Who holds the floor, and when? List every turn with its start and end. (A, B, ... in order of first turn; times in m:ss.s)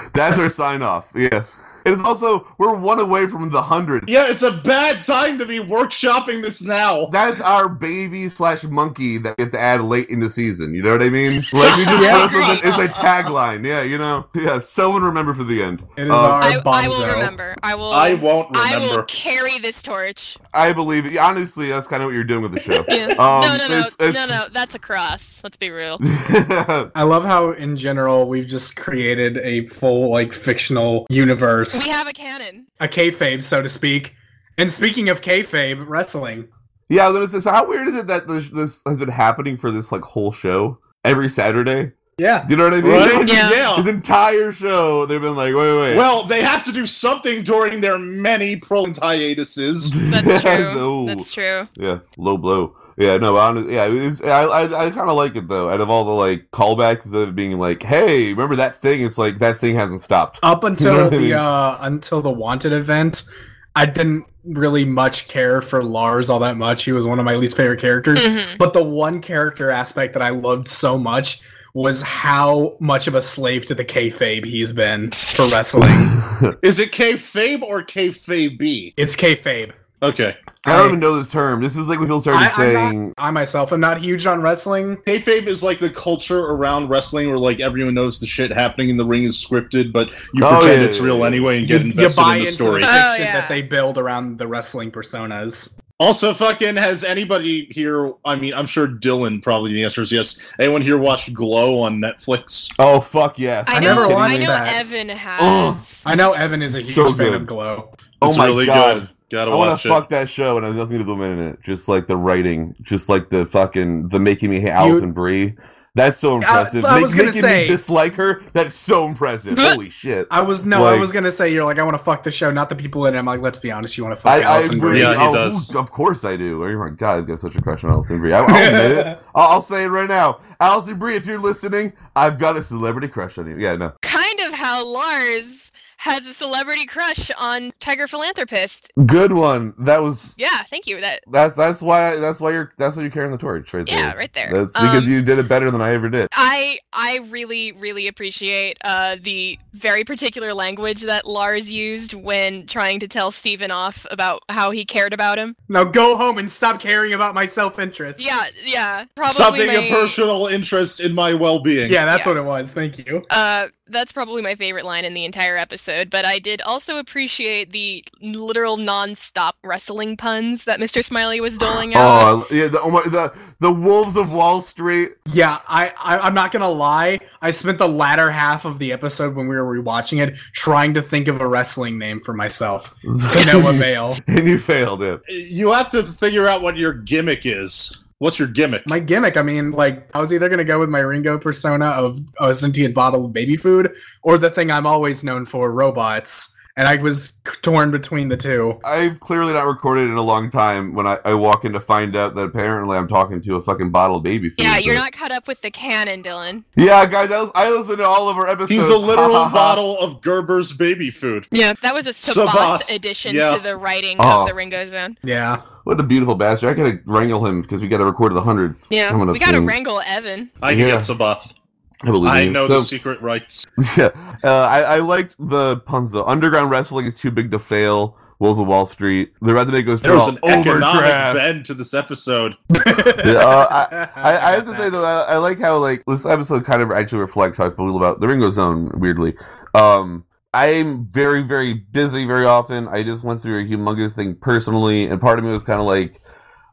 0:00.1-0:04.1 A
0:04.1-0:07.1 B
0:07.1-0:16.6 A
0:11.6-0:13.3 C
0:11.9-0:12.6 D
0:16.0-0:17.4 D
0:16.4-0:20.4 C
0:17.9-0:19.1 B
0:20.5-0:24.4 A
0:22.9-0:26.0 C
0:26.0-0:26.9 A
0:26.9-0:31.9 D
0:31.7-0:32.7 C
0:32.8-0:36.5 D
0:36.9-0:41.9 A
0:42.2-0:42.5 D
0:42.4-0:46.1 A
0:42.8-0:43.9 B
0:43.2-0:43.8 C
0:45.9-0:50.0 B
0:49.9-1:01.4 A
0:50.0-0:51.7 C
1:00.4-1:16.2 D
1:08.2-1:08.6 C
1:15.9-1:16.5 A
1:16.6-1:18.9 B
1:19.0-1:19.8 D
1:20.0-1:20.6 B
1:20.6-1:21.0 D
1:20.6-1:23.1 A
1:22.3-1:25.0 D
1:25.1-1:33.0 B
1:30.4-1:31.5 A
1:31.6-1:35.8 D
1:32.8-1:33.6 C
1:36.0-1:42.7 B
1:42.8-1:44.5 A
1:43.7-1:46.1 C
1:43.7-1:44.8 D
1:45.4-1:45.8 A
1:46.0-1:47.9 D
1:46.7-1:47.5 A
1:48.2-1:50.0 B
1:48.2-2:01.1 A
1:54.8-1:55.1 D
1:56.4-1:57.8 D
1:59.5-1:59.8 C
2:00.3-2:05.2 D
2:04.2-2:13.9 A
2:04.9-2:05.7 B
2:08.4-2:09.2 D
2:14.0-2:18.9 C
2:19.0-2:20.3 A
2:20.4-2:21.2 C
2:21.3-2:26.3 A
2:23.9-2:25.1 C
2:26.3-2:35.6 C
2:35.7-2:38.5 D
2:38.2-2:40.2 C
2:39.3-2:42.1 B
2:41.8-2:43.3 D
2:43.3-2:52.3 C
2:51.9-2:55.1 A
2:55.3-3:04.2 D
3:03.0-3:05.2 A
3:05.3-3:08.9 B
3:08.9-3:18.8 D
3:18.8-3:25.0 A
3:24.6-3:26.6 C
3:26.8-3:29.8 A
3:28.7-3:31.5 B
3:31.5-3:35.2 C
3:32.2-3:33.6 B
3:34.2-3:34.6 A
3:35.2-3:35.6 D
3:35.8-3:39.8 A
3:38.9-3:40.6 C
3:40.6-3:41.5 B
3:40.6-3:41.1 A
3:42.0-3:42.9 A
3:42.2-3:43.7 B
3:43.8-3:51.4 A
3:50.0-3:52.6 B
3:52.7-3:54.9 D
3:53.2-4:06.2 A